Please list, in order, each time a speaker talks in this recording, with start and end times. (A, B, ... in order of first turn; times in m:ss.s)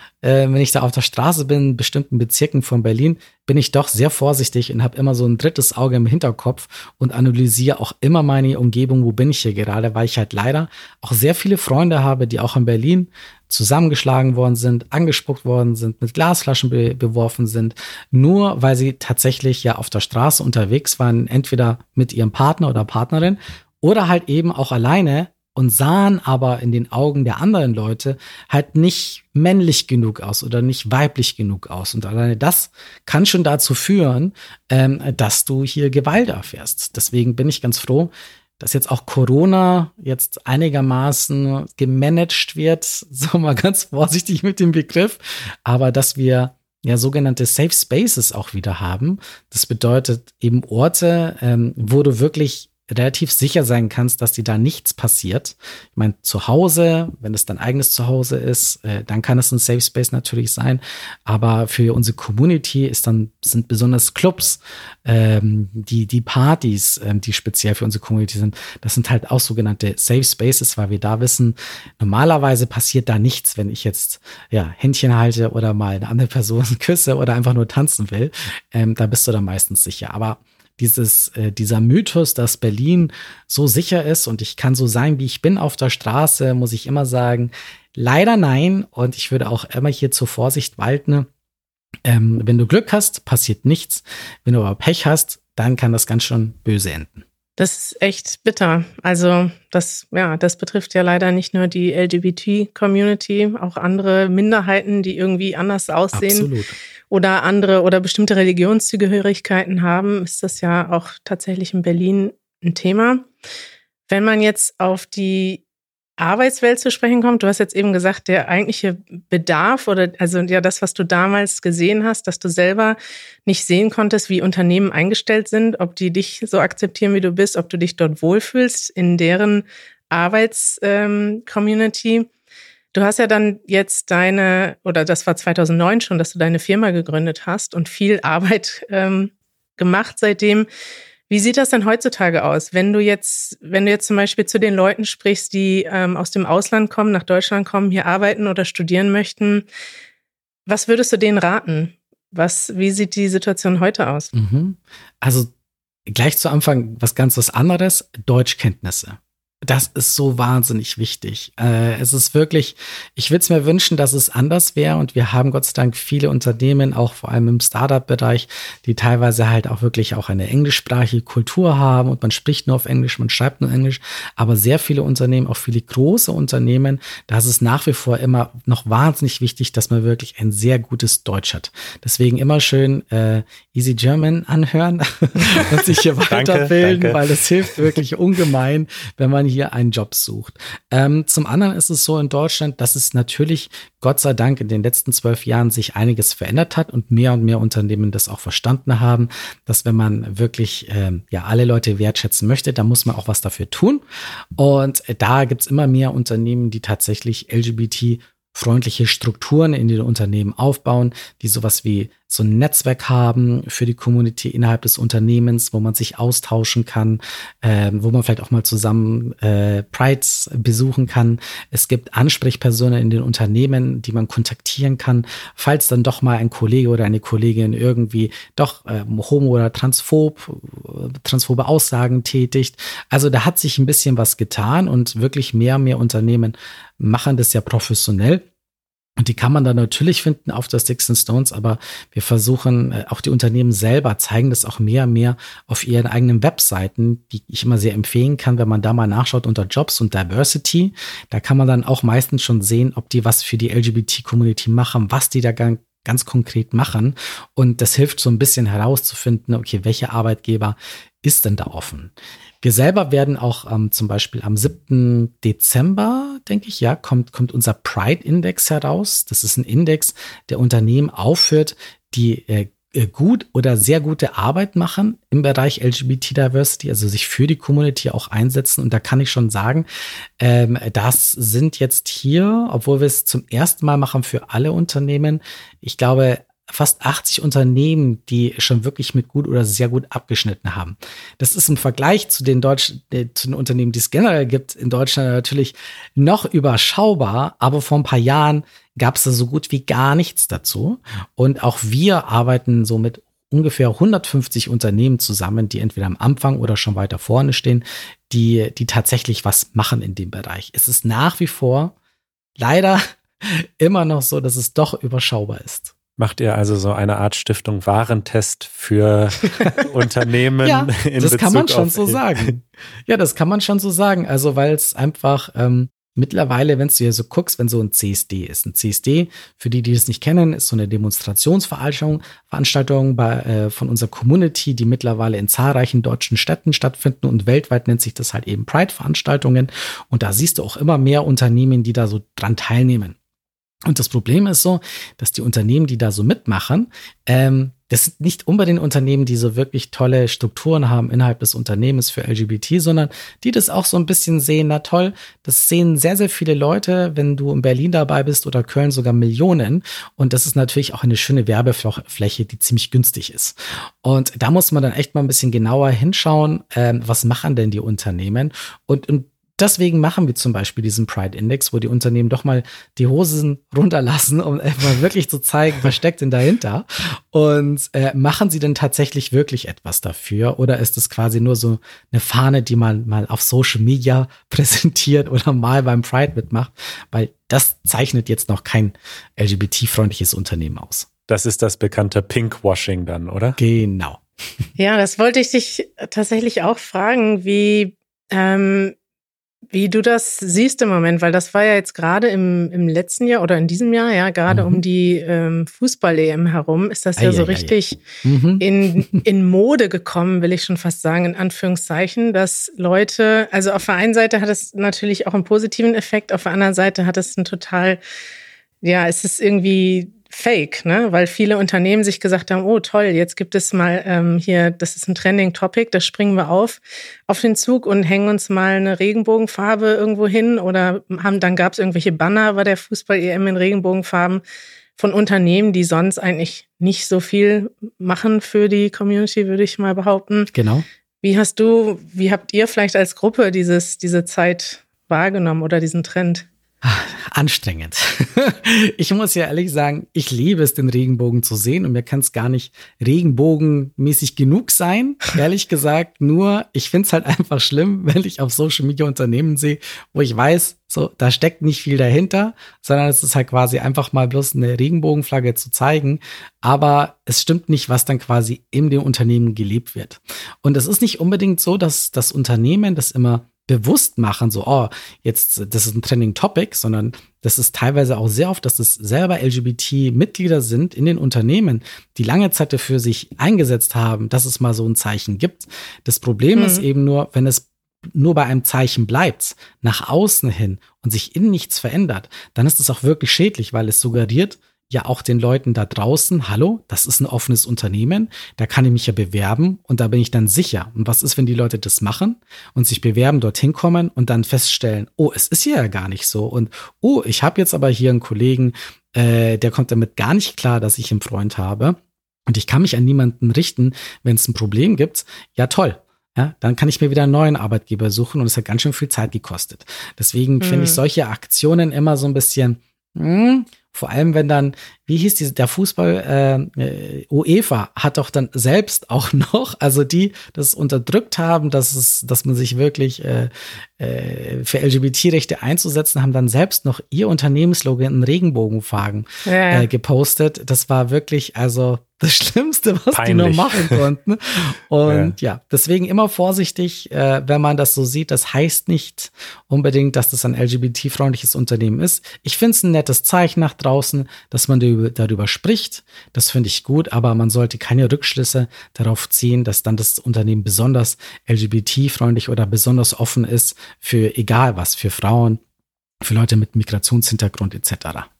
0:00.2-1:31.3 A
1:32.1-1:37.2 A
1:37.6-1:46.5 B
1:46.1-1:46.8 A
1:47.1-1:53.3 B
1:54.1-1:55.6 B
1:56.2-2:12.3 B
2:12.9-2:20.7 B
2:21.3-2:29.7 B
2:30.7-2:34.3 B
2:34.3-2:35.5 A
2:36.1-3:24.0 A
3:06.3-3:07.2 C
3:24.6-3:58.5 A
3:59.2-4:39.9 A
4:40.4-5:12.0 A
5:12.6-5:16.0 A
5:16.2-5:22.5 C
5:20.6-5:43.2 A
5:43.9-6:31.1 A
6:31.3-6:33.6 C
6:33.6-6:34.2 A
6:34.8-6:39.0 B
6:39.7-6:48.0 B
6:44.5-6:44.8 A
6:47.2-6:49.2 A
6:48.6-6:58.0 B
6:58.8-7:14.4 B
7:15.0-7:20.5 B
7:20.5-7:20.8 A
7:21.2-7:26.5 B
7:26.8-9:25.6 A
8:06.6-8:06.8 B
8:40.6-8:41.0 B
8:59.4-8:59.9 B
9:03.1-9:04.0 C
9:05.1-9:05.3 C
9:26.2-9:28.3 A